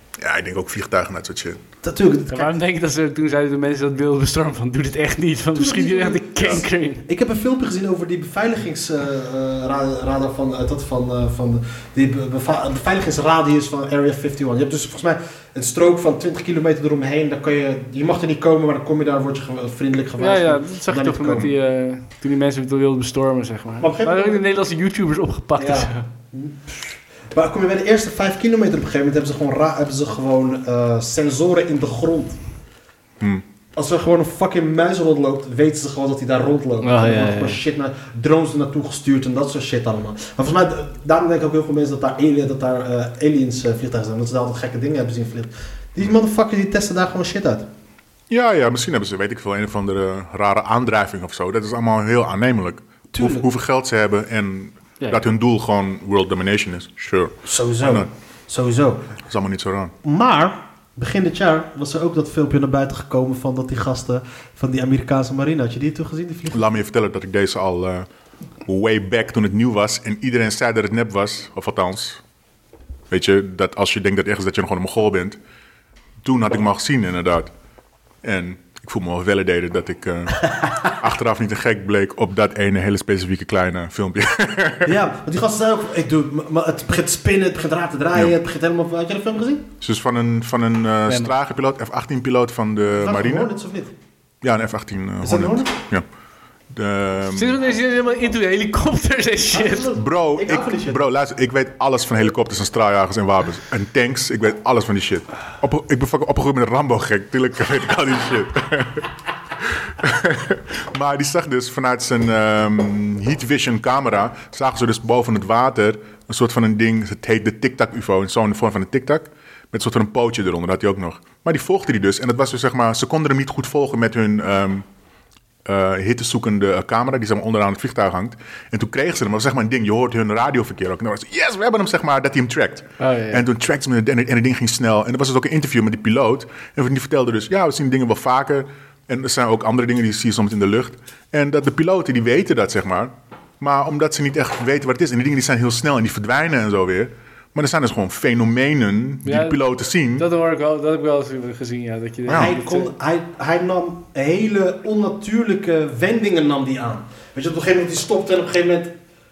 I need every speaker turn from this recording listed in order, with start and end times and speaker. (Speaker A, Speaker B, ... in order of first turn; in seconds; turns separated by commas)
Speaker A: 0.2-1.6, Speaker B: 1.8-2.5, Speaker C: 2.3-7.0, Speaker B: 5.5-21.5, Speaker C: 20.2-26.1, Speaker B: 23.8-24.4, Speaker B: 25.6-32.4, Speaker B: 33.8-47.7, Speaker C: 36.8-37.6, Speaker A: 48.3-58.1, Speaker B: 53.1-53.5, Speaker B: 57.4-59.1, Speaker A: 59.3-59.9, Speaker B: 60.0-66.7, Speaker A: 66.5-68.1, Speaker A: 68.7-72.2, Speaker A: 73.1-75.4, Speaker A: 76.2-77.5, Speaker A: 78.2-85.0, Speaker B: 80.6-80.9, Speaker B: 84.8-89.7, Speaker A: 89.8-93.5, Speaker C: 91.1-91.3, Speaker B: 92.9-93.9, Speaker A: 94.4-96.0, Speaker B: 95.2-95.7, Speaker A: 96.7-97.6, Speaker C: 97.3-99.9, Speaker B: 99.5-101.0, Speaker A: 100.0-109.1, Speaker A: 109.6-124.8, Speaker A: 125.7-150.3, Speaker C: 133.0-133.4, Speaker C: 149.2-149.6, Speaker C: 150.2-152.9, Speaker A: 152.3-152.5, Speaker B: 152.3-158.9